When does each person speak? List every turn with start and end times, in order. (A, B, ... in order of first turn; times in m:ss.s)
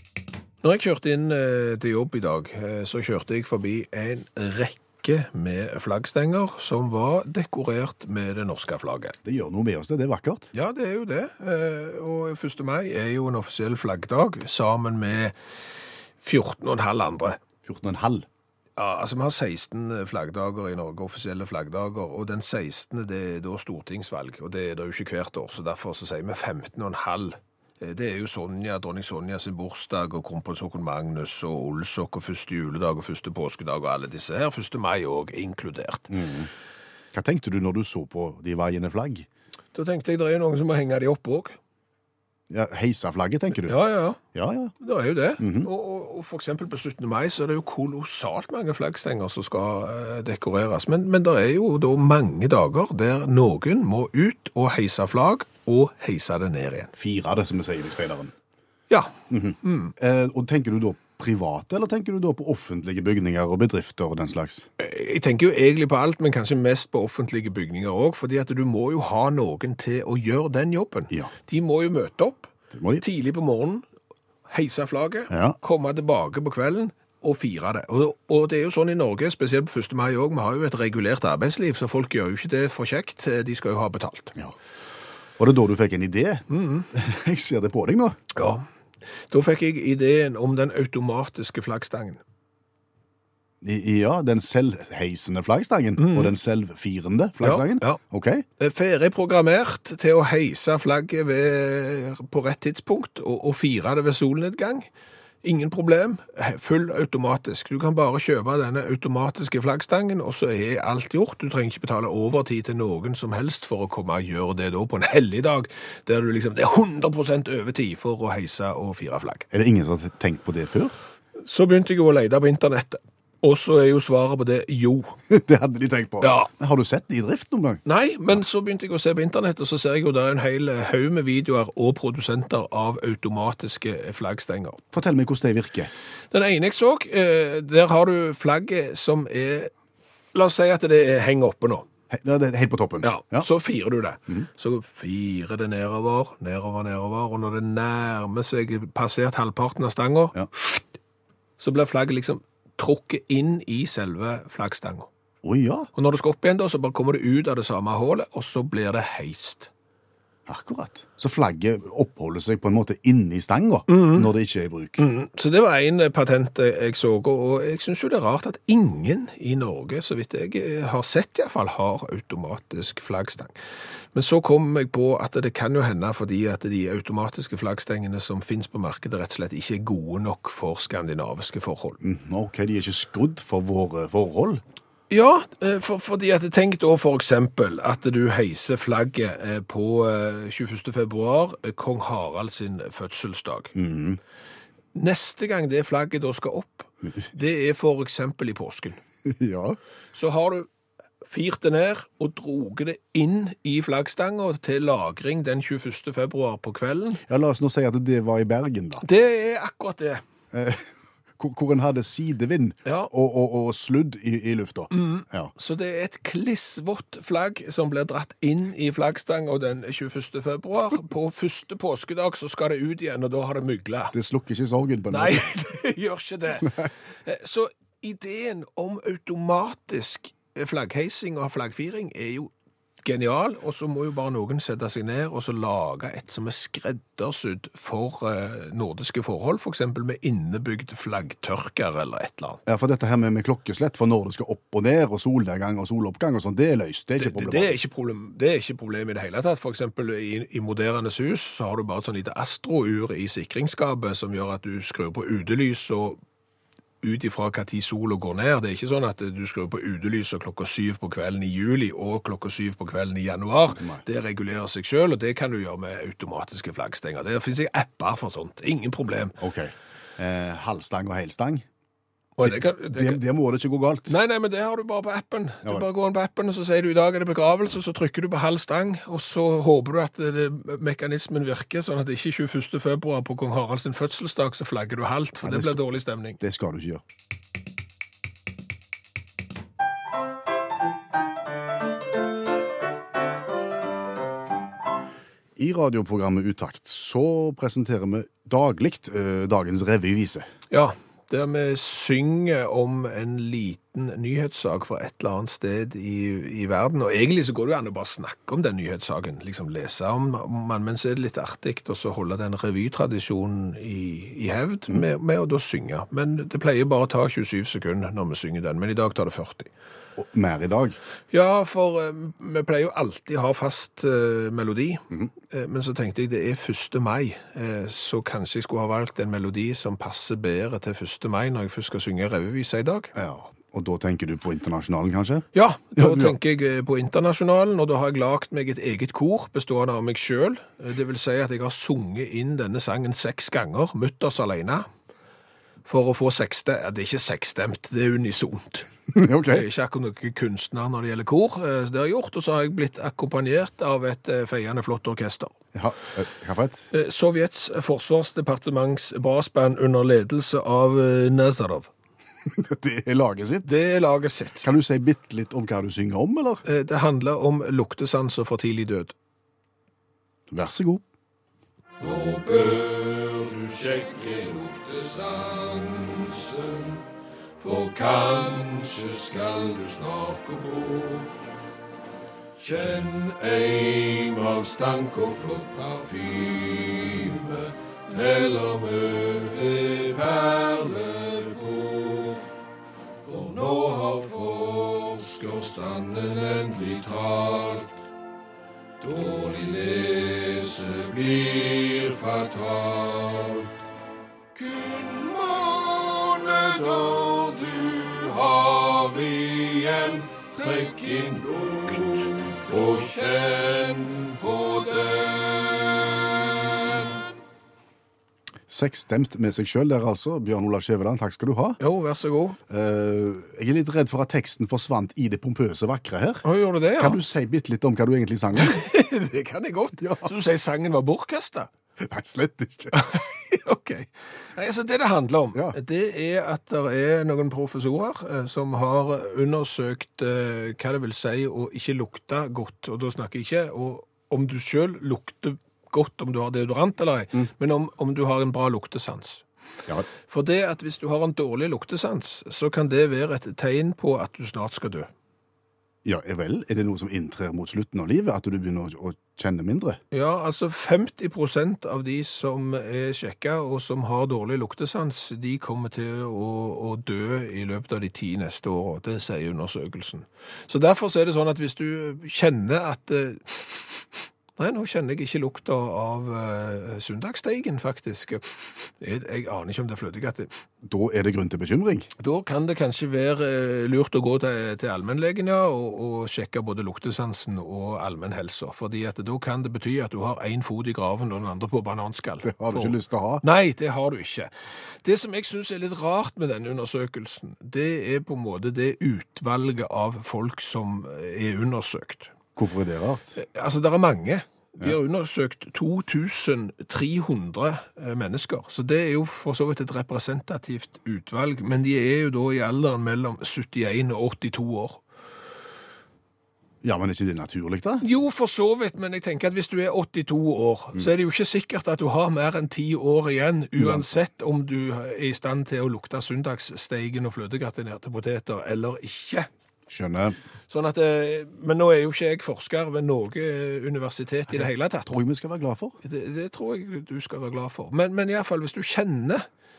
0:00.6-0:09.2 A
0:09.2-0:10.5 B
0:10.5-0:15.3 A
0:16.2-0:17.4 A
0:17.6-0:18.3 B
0:18.8-0:36.1 A
0:36.1-0:36.5 B
0:37.1-0:39.3 B
0:39.7-0:41.6 A
0:42.5-0:43.8 B
0:43.7-0:44.2 A
0:44.3-0:44.7 B
0:44.8-0:56.9 A
0:45.4-0:45.7 B
0:57.0-0:58.3 B
0:58.9-0:59.9 A
0:59.3-1:04.7 B
1:04.8-1:13.9 A
1:12.7-1:13.0 B
1:14.5-1:24.4 A
1:15.3-1:15.6 B
1:25.4-1:28.2 B
1:26.5-1:26.9 A
1:28.4-1:28.6 A
1:29.3-1:32.2 A
1:33.6-1:38.4 B
1:36.0-1:36.3 A
1:37.4-1:38.0 A
1:38.6-1:44.9 A
1:45.4-1:59.5 A
1:59.5-2:00.9 B
2:01.4-2:05.2 A
2:05.3-2:07.8 B
2:06.2-2:06.5 A
2:07.9-2:14.8 A
2:14.9-2:15.9 B
2:16.3-2:19.7 A
2:20.3-2:21.9 A
2:22.1-2:23.5 B
2:23.0-2:30.8 A
2:31.6-2:35.1 A
2:35.4-2:35.9 B
2:36.0-2:39.7 A
2:40.5-2:45.0 B
2:43.9-2:44.3 A
2:45.0-2:53.6 A
2:54.1-3:02.0 A
3:02.0-3:04.6 B
3:05.1-3:13.7 A
3:13.8-3:14.2 B
3:14.9-3:19.0 A
3:19.2-3:19.8 B
3:20.1-3:20.7 A
3:21.2-3:27.2 A
3:27.3-3:29.0 B
3:29.0-3:30.2 A
3:30.5-3:35.5 B
3:32.8-3:33.1 A
3:34.9-3:44.1 A
3:44.1-3:45.5 B
3:45.1-3:52.5 A
3:53.0-4:02.6 A
4:02.7-4:07.8 B
4:07.2-4:16.2 A
4:17.0-4:29.4 A
4:29.4-4:31.6 B
4:32.4-4:33.2 A
4:32.4-4:34.1 B
4:34.1-4:46.4 A
4:45.4-4:45.9 B
4:46.4-4:47.0 B
4:55.6-5:00.5 B
5:00.7-5:19.7 A
5:20.2-5:21.0 B
5:21.3-5:33.1 A
5:33.2-5:36.4 B
5:35.5-5:44.9 A
5:45.9-5:48.9 A
5:49.1-5:49.7 B
5:49.5-5:55.6 A
5:55.7-5:56.9 B
5:56.9-6:01.9 A
6:02.5-6:03.7 B
6:03.6-6:04.7 A
6:04.6-6:06.6 B
6:06.6-6:09.1 A
6:10.5-6:11.0 B
6:12.0-6:17.0 A
6:17.6-6:21.4 A
6:22.6-6:32.5 A
6:33.2-6:38.0 A
6:39.0-6:43.7 A
6:44.6-6:57.2 A
6:58.7-7:01.8 B
7:01.8-7:02.6 A
7:02.7-7:06.4 B
7:06.4-7:07.2 A
7:07.0-7:08.8 B
7:08.6-7:11.7 A
7:10.0-7:10.3 B
7:12.0-7:13.1 B
7:12.9-7:29.4 A
7:30.3-7:35.1 A
7:36.0-7:40.0 B
7:40.1-7:54.0 A
7:54.6-7:58.4 A
7:59.0-8:00.5 A
8:00.8-8:02.1 B
8:02.2-8:14.5 A
8:12.4-8:13.4 B
8:15.0-8:22.3 A
8:22.6-8:23.4 B
8:23.4-8:35.0 A
8:36.8-8:38.0 B
8:38.0-8:49.5 A
8:43.8-8:44.1 B
8:49.9-8:50.4 B
8:50.7-8:55.1 A
8:55.1-8:56.0 B
8:56.0-8:59.5 A